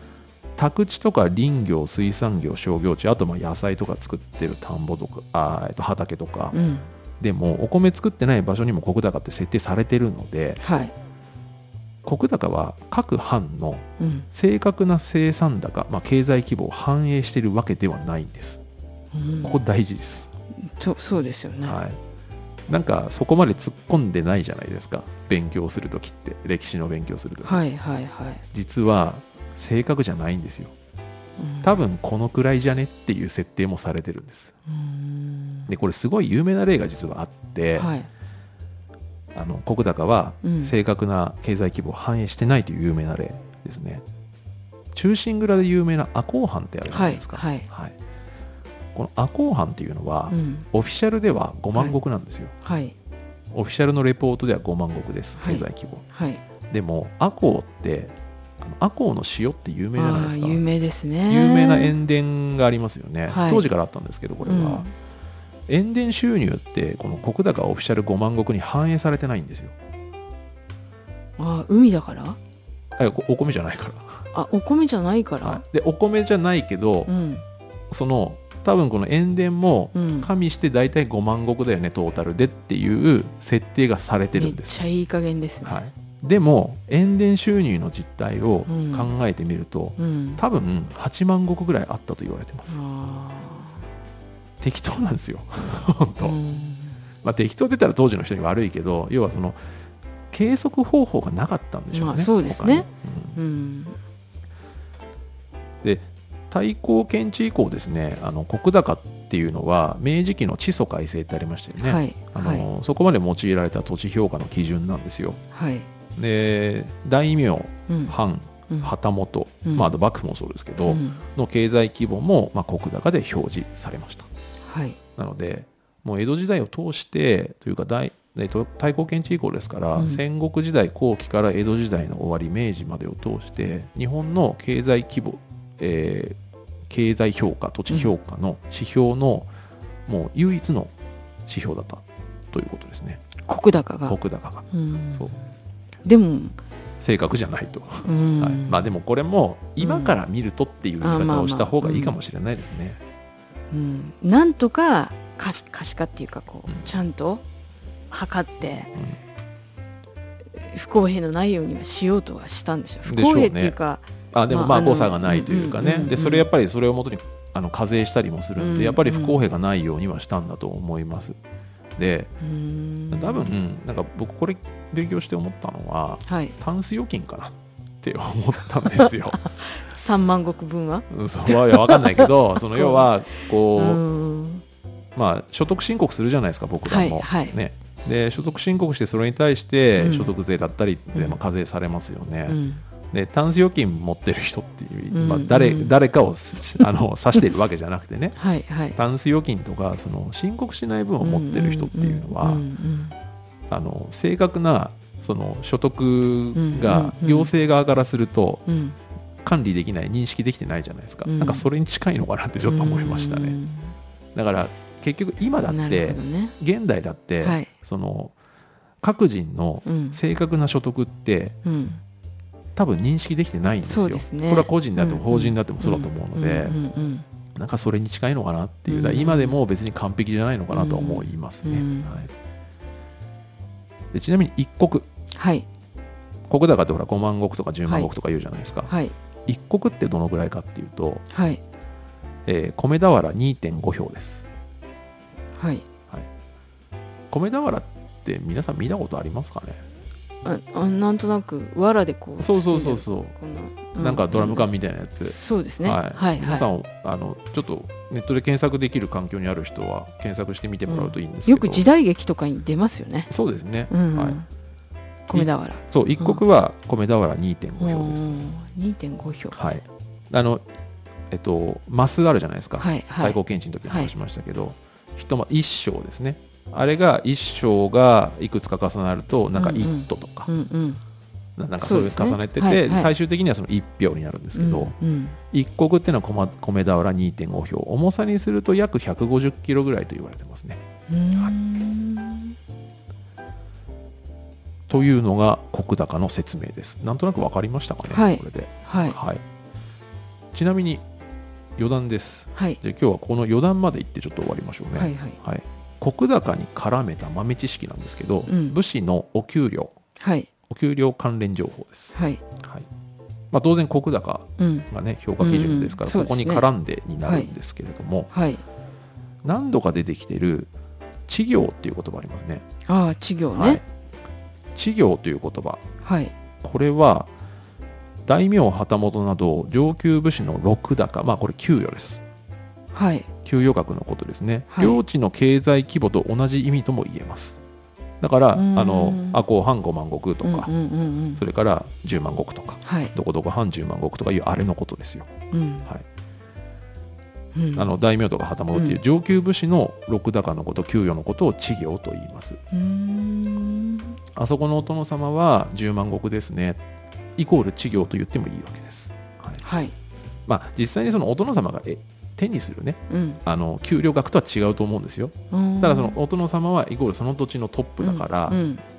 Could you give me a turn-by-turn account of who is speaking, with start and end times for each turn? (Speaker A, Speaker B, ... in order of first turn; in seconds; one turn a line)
Speaker A: 0.6-6.6
Speaker B: 6.5-6.9
Speaker A: 7.2-10.6
Speaker B: 10.6-10.9
Speaker A: 12.0-18.6
Speaker B: 14.0-14.3
Speaker B: 19.1-19.6
Speaker A: 19.4-20.3
Speaker B: 20.6-21.8
Speaker A: 21.6-22.0
Speaker A: 22.7-27.6
Speaker B: 27.4-28.4
Speaker A: 28.5-30.7
Speaker B: 31.4-31.8
Speaker A: 31.6-34.5
Speaker B: 34.7-35.7
Speaker A: 35.7-37.9
Speaker B: 37.8-38.1
Speaker A: 39.3-44.0
Speaker B: 40.4-40.7
Speaker A: 44.9-48.0
Speaker B: 46.9-47.7
Speaker A: 49.0-52.5
Speaker B: 50.3-50.7
Speaker B: 52.6-53.0
Speaker A: 53.5-56.0
Speaker B: 55.4-56.4
Speaker A: 56.7-60.6
Speaker B: 60.0-61.9
Speaker A: 61.3-64.9
Speaker B: 63.3-63.7
Speaker B: 64.4-64.9
Speaker A: 65.7-69.7
Speaker B: 71.4-72.4
Speaker A: 73.0-74.3
Speaker B: 74.3-75.6
Speaker A: 75.4-77.1
Speaker B: 77.1-77.4
Speaker A: 77.9-84.8
Speaker B: 79.9-80.3
Speaker B: 84.3-85.8
Speaker A: 85.6-92.8
Speaker B: 88.7-89.1
Speaker B: 90.0-90.4
Speaker B: 92.7-93.9
Speaker A: 94.6-96.4
Speaker B: 96.2-97.0
Speaker A: 97.2-99.6
Speaker A: 100.3-103.4
Speaker B: 101.9-104.0
Speaker A: 105.8-115.4
Speaker B: 111.8-112.7
Speaker B: 115.5-115.9
Speaker A: 116.2-124.3
Speaker B: 117.9-118.2
Speaker B: 119.7-119.9
Speaker B: 120.9-121.2
Speaker B: 124.6-125.0
Speaker A: 125.2-136.4
Speaker B: 130.0-130.2
Speaker A: 136.9-139.5
Speaker A: 140.1-140.9
Speaker A: 141.5-143.2
Speaker B: 143.4-144.2
Speaker A: 144.1-145.3
Speaker B: 144.7-145.4
Speaker B: 146.0-146.6
Speaker A: 147.0-153.0
Speaker B: 148.0-148.8
Speaker B: 149.8-150.2
Speaker B: 151.0-152.2
Speaker B: 153.7-157.4
Speaker B: 158.1-158.9
Speaker B: 160.5-166.5
Speaker A: 163.1-163.8
Speaker A: 164.3-171.4
Speaker B: 168.6-169.4
Speaker A: 172.0-172.3
Speaker B: 172.4-173.5
Speaker A: 173.1-179.5
Speaker B: 176.3-176.6
Speaker B: 179.7-183.1
Speaker A: 181.1-184.0
Speaker B: 183.7-184.6
Speaker A: 185.2-192.6
Speaker B: 186.8-187.6
Speaker B: 190.0-190.3
Speaker B: 192.5-192.8
Speaker A: 193.1-198.4
Speaker B: 195.1-195.9
Speaker B: 198.4-199.0
Speaker A: 198.9-202.7
Speaker B: 201.2-203.1
Speaker A: 203.7-208.7
Speaker B: 206.6-207.5
Speaker B: 208.7-209.0
Speaker A: 209.4-213.6
Speaker B: 211.2-211.7
Speaker B: 212.7-213.9
Speaker A: 214.3-218.3
Speaker B: 215.7-216.6
Speaker B: 217.4-217.7
Speaker A: 219.0-221.6
Speaker B: 219.8-220.2
Speaker B: 221.7-222.0
Speaker A: 222.8-226.8
Speaker B: 223.8-227.2
Speaker A: 227.6-232.3
Speaker B: 228.9-229.6
Speaker B: 230.7-232.2
Speaker A: 234.1-235.1
Speaker B: 235.3-235.7
Speaker A: 236.5-238.9
Speaker B: 238.9-239.2
Speaker A: 239.5-241.2
Speaker B: 241.3-241.6
Speaker A: 242.5-244.5
Speaker B: 245.6-245.9
Speaker A: 247.3-249.8
Speaker B: 250.4-254.7
Speaker A: 252.4-253.3
Speaker A: 254.0-261.9
Speaker B: 255.2-256.7
Speaker B: 260.9-263.3
Speaker A: 263.3-264.4
Speaker B: 263.9-264.5
Speaker B: 265.3-266.4
Speaker A: 265.3-268.4
Speaker B: 267.8-269.6
Speaker A: 269.5-270.6
Speaker A: 271.3-280.5
Speaker B: 272.8-274.1
Speaker B: 279.6-281.0
Speaker A: 281.6-284.9
Speaker B: 281.8-283.1
Speaker B: 284.5-285.4
Speaker A: 285.5-290.8
Speaker B: 291.1-292.6
Speaker A: 294.9-299.4
Speaker B: 298.1-299.2
Speaker A: 300.5-301.1
Speaker A: 301.8-310.0
Speaker B: 305.0-305.4
Speaker B: 308.5-308.8
Speaker B: 310.2-310.5
Speaker A: 310.7-312.9
Speaker B: 312.1-312.4
Speaker A: 313.5-318.3
Speaker B: 314.6-314.9
Speaker B: 315.4-316.7
Speaker B: 317.2-317.5
Speaker B: 318.3-318.6
Speaker A: 319.4-320.7
Speaker A: 321.3-322.6
Speaker B: 322.9-323.8
Speaker A: 323.6-323.8
Speaker A: 324.8-325.8
Speaker B: 326.0-326.3
Speaker A: 326.6-327.3
Speaker A: 328.3-332.2
Speaker B: 332.9-333.3
Speaker A: 333.4-337.6
Speaker B: 334.7-335.0
Speaker A: 338.2-340.7
Speaker B: 338.5-339.4
Speaker B: 340.4-341.4
Speaker A: 341.4-345.3
Speaker B: 342.8-343.1
Speaker B: 345.5-345.9
Speaker B: 347.5-347.9
Speaker A: 347.7-352.6
Speaker B: 348.7-349.0
Speaker B: 352.7-354.2
Speaker A: 354.4-356.8
Speaker A: 357.4-359.6
Speaker B: 359.6-359.9
Speaker A: 360.5-368.6
Speaker B: 363.1-363.4
Speaker B: 365.5-366.2
Speaker B: 368.0-368.8